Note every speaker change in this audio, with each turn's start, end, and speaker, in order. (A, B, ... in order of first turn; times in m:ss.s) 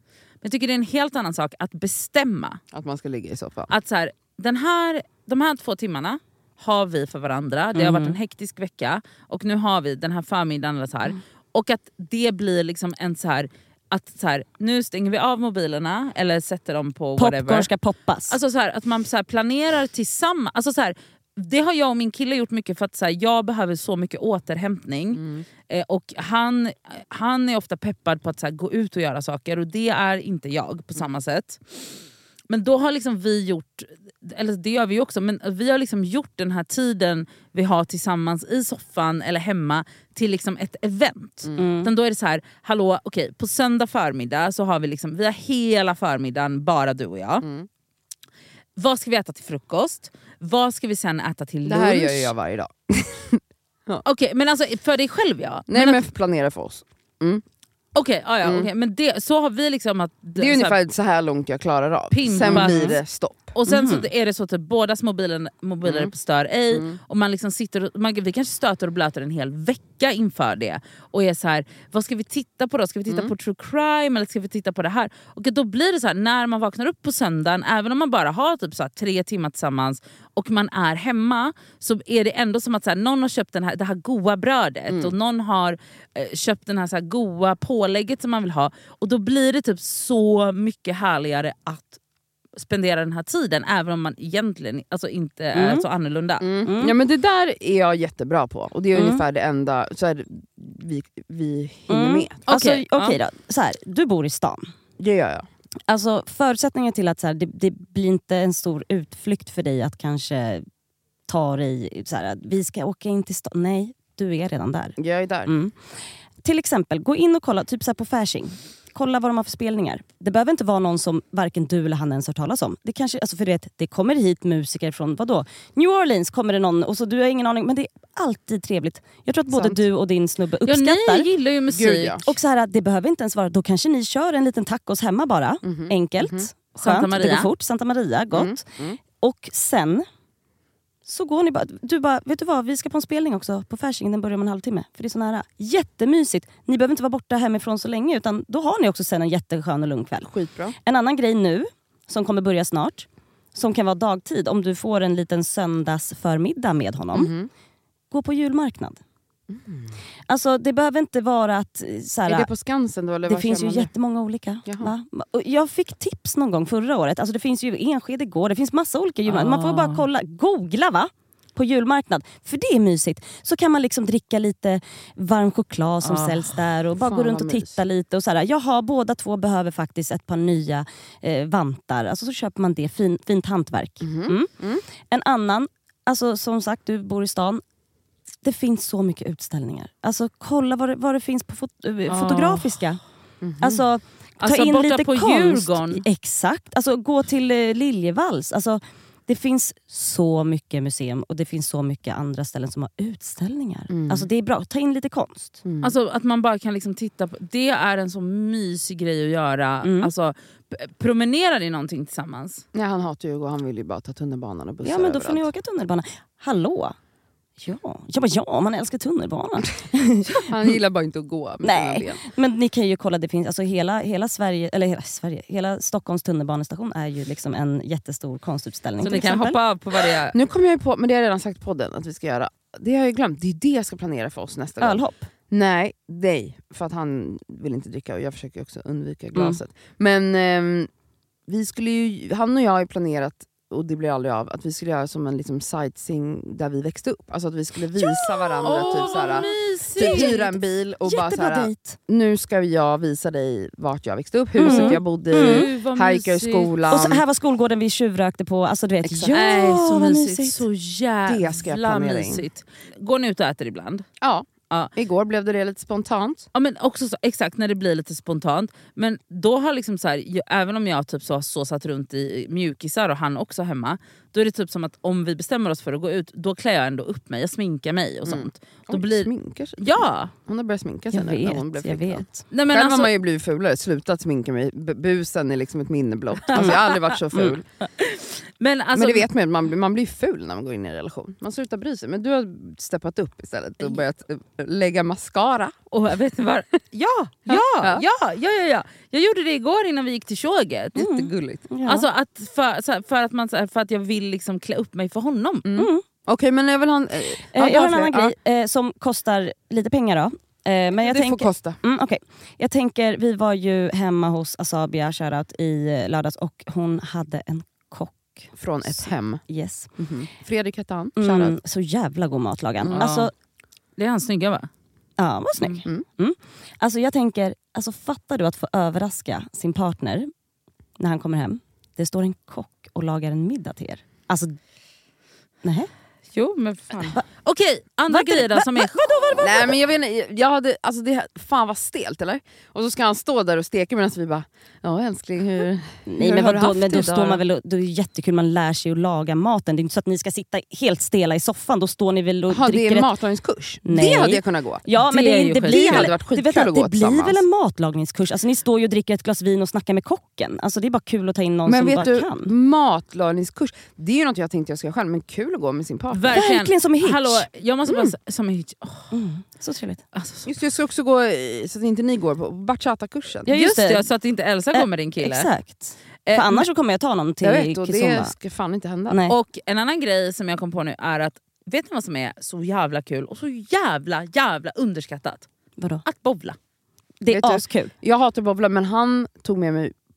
0:00.4-0:02.6 A
0:02.7-0:03.7 B
0:03.7-0:17.7 A
0:07.7-0:08.2 C
0:17.2-0:18.4 C
0:18.3-0:47.4 A
0:25.2-0:25.4 B
0:41.6-0:41.9 C
0:47.4-0:47.7 B
0:48.8-0:52.3 A
0:51.6-0:54.0 B
0:54.0-0:56.0 A
0:55.7-0:57.4 B
0:57.9-1:00.8 A
0:58.4-0:58.7 B
1:00.4-1:03.6 B
1:02.1-1:03.0 A
1:02.4-1:02.9 C
1:03.5-1:32.0 A
1:05.8-1:06.1 B
1:06.7-1:07.0 B
1:24.9-1:25.1 B
1:32.6-1:36.5 A
1:35.5-1:35.8 C
1:36.4-1:42.5 B
1:36.6-1:37.0 C
1:38.9-1:39.2 C
1:41.9-1:44.7 C
1:42.5-1:43.2 A
1:45.0-1:45.4 B
1:45.9-1:50.6 C
1:51.3-1:55.7 C
1:55.0-1:55.5 B
1:56.4-2:11.3 C
2:09.5-2:09.8 B
2:10.6-2:12.3 A
2:11.7-2:12.2 B
2:12.2-2:20.0 C
2:15.6-2:16.5 B
2:16.8-2:17.5 A
2:18.3-2:19.0 B
2:21.0-2:30.3 C
2:30.2-2:30.7 B
2:30.8-2:37.3 C
2:37.1-2:37.5 B
2:38.1-2:39.0 C
2:39.5-2:39.9 B
2:40.3-2:42.5 C
2:42.3-2:43.9 B
2:43.2-3:07.6 C
2:44.6-2:44.9 B
2:49.2-2:50.0 A
2:56.0-2:56.6 A
2:56.9-2:57.8 B
3:04.0-3:04.8 B
3:08.4-3:13.0 C
3:12.1-3:12.8 A
3:13.4-3:13.8 B
3:13.6-3:25.6 C
3:14.4-3:16.0 A
3:23.9-3:24.3 B
3:25.6-3:25.9 B
3:25.8-3:32.6 A
3:29.8-3:30.1 C
3:32.7-3:35.5 B
3:34.8-3:36.9 C
3:37.6-3:40.4 C
3:40.4-3:42.2 B
3:41.6-3:49.6 C
3:49.0-3:50.4 A
3:50.3-4:00.9 B
3:54.8-3:55.3 C
4:01.5-4:17.2 B
4:08.0-4:12.0 C
4:08.6-4:10.4 A
4:14.6-4:15.7 C
4:14.6-4:17.0 A
4:16.9-4:20.6 C
4:19.0-4:19.4 B
4:19.3-4:24.1 A
4:21.2-4:22.5 B
4:24.2-4:26.5 B
4:26.5-4:40.3 A
4:38.2-4:39.9 B
4:40.4-4:47.6 B
4:41.1-4:42.4 C
4:42.5-4:43.1 A
4:46.5-4:47.2 A
4:48.0-4:49.3 A
4:48.9-4:55.7 B
4:55.9-5:01.1 A
4:57.5-4:58.0 B
5:01.0-5:01.7 B
5:01.0-5:02.0 C
5:01.8-5:05.7 A
5:05.6-5:08.3 B
5:05.8-5:06.0 C
5:07.5-5:19.9 C
5:11.0-5:11.8 B
5:18.6-5:19.4 B
5:20.0-5:21.6 B
5:21.2-5:23.3 C
5:22.8-5:23.1 B
5:22.9-5:23.3 A
5:24.0-5:24.7 A
5:25.2-5:30.3 C
5:31.0-5:34.6 C
5:35.6-5:35.9 C
5:36.3-5:39.3 A
5:38.1-5:39.8 C
5:39.4-5:47.4 B
5:46.0-5:53.1 C
5:52.5-5:54.8 B
5:53.8-6:02.5 C
5:55.0-5:56.1 A
5:55.6-5:57.4 B
6:01.6-6:06.4 B
6:06.1-6:09.1 A
6:06.3-6:07.5 C
6:07.8-6:08.1 B
6:09.1-6:10.0 C
6:10.1-6:10.5 A
6:10.4-6:13.5 B
6:13.4-6:14.1 C
6:13.5-6:15.5 A
6:14.7-6:18.3 C
6:16.2-6:16.7 A
6:17.4-6:19.2 B
6:19.1-6:19.4 C
6:19.3-6:25.5 A
6:25.8-6:26.0 C
6:26.0-6:26.6 A
6:27.2-6:27.9 C
6:27.3-6:29.9 B